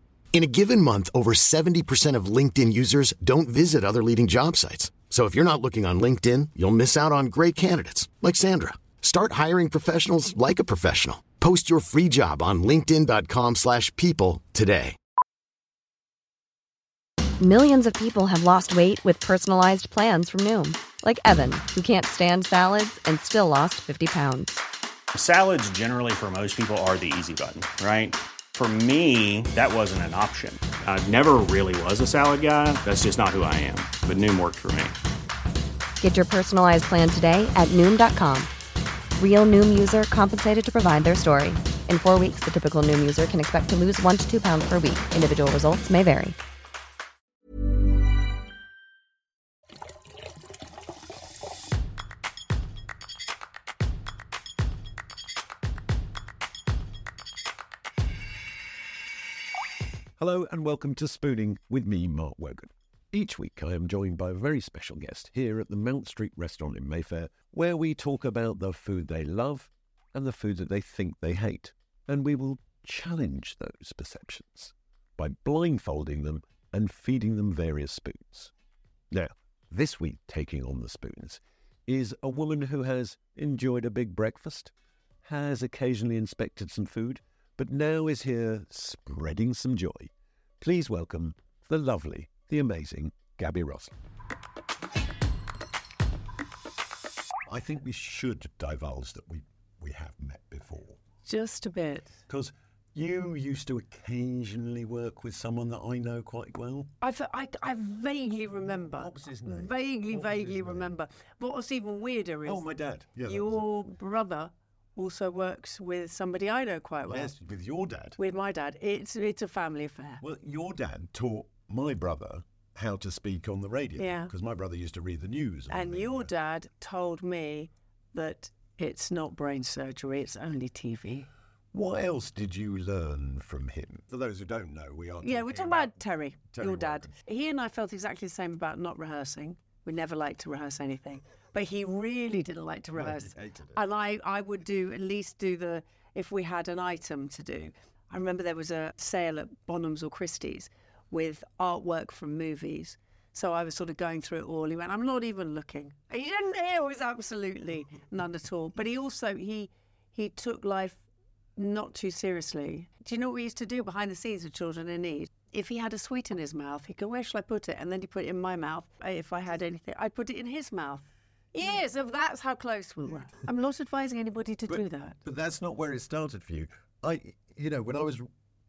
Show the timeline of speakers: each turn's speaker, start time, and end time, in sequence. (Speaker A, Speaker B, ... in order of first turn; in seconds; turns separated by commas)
Speaker A: 0.3-15.0, Speaker B: 17.4-24.6, Speaker C: 25.1-35.0, Speaker B: 36.0-38.5, Speaker B: 39.2-46.4, Speaker D: 60.2-78.5, Speaker D: 79.1-84.7, Speaker D: 85.2-93.9, Speaker D: 97.5-101.0, Speaker E: 101.2-102.1, Speaker D: 102.3-106.9, Speaker E: 107.0-112.6, Speaker D: 108.9-111.0, Speaker D: 112.4-113.6, Speaker E: 113.2-117.3, Speaker D: 117.0-118.2, Speaker E: 118.2-120.2, Speaker D: 120.2-126.3, Speaker E: 124.0-124.3, Speaker E: 125.7-131.3, Speaker D: 131.7-137.1, Speaker E: 135.2-161.0, Speaker D: 142.9-143.8, Speaker E: 161.6-175.2, Speaker D: 174.7-178.3